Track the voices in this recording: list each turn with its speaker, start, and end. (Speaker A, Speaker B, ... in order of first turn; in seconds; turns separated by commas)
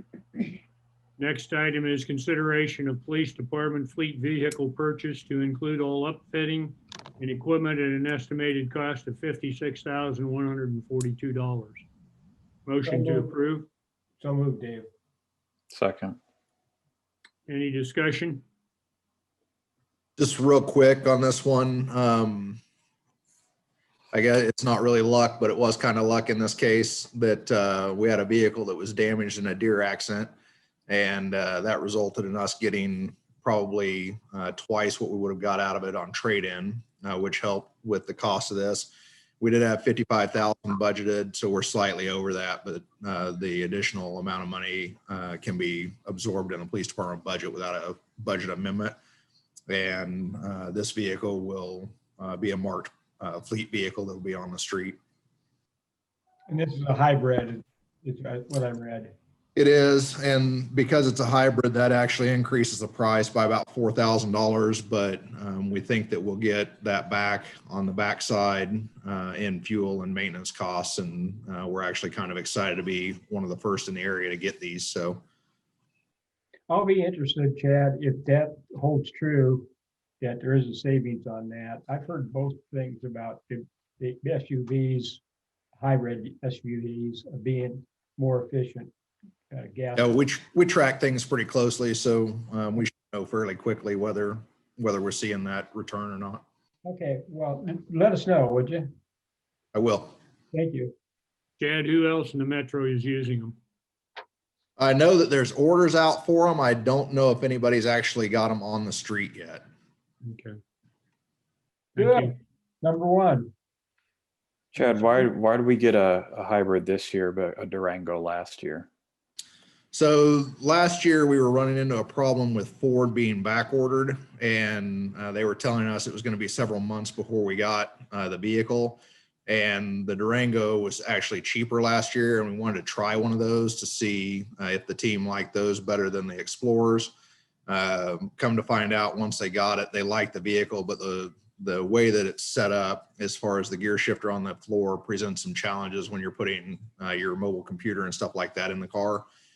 Speaker A: 1.2-11.8, Speaker A: 12.7-13.7, Speaker B: 12.8-13.3, Speaker B: 14.2-14.8, Speaker C: 15.7-16.2, Speaker A: 17.5-18.4, Speaker D: 20.2-22.6, Speaker D: 24.1-30.3, Speaker D: 30.9-48.9, Speaker D: 49.7-55.0, Speaker B: 56.5-59.1, Speaker D: 59.5-75.2, Speaker B: 76.7-79.7, Speaker B: 80.2-85.2, Speaker B: 85.8-88.9, Speaker B: 89.5-90.1, Speaker D: 90.0-96.4, Speaker B: 96.8-98.8, Speaker D: 99.7-100.2, Speaker B: 100.5-100.9, Speaker A: 101.6-103.6, Speaker D: 104.8-109.6, Speaker A: 110.2-110.6, Speaker A: 112.0-112.3, Speaker B: 112.0-113.5, Speaker C: 114.7-118.9, Speaker B: 114.8-115.2, Speaker D: 119.9-137.1, Speaker D: 137.7-149.3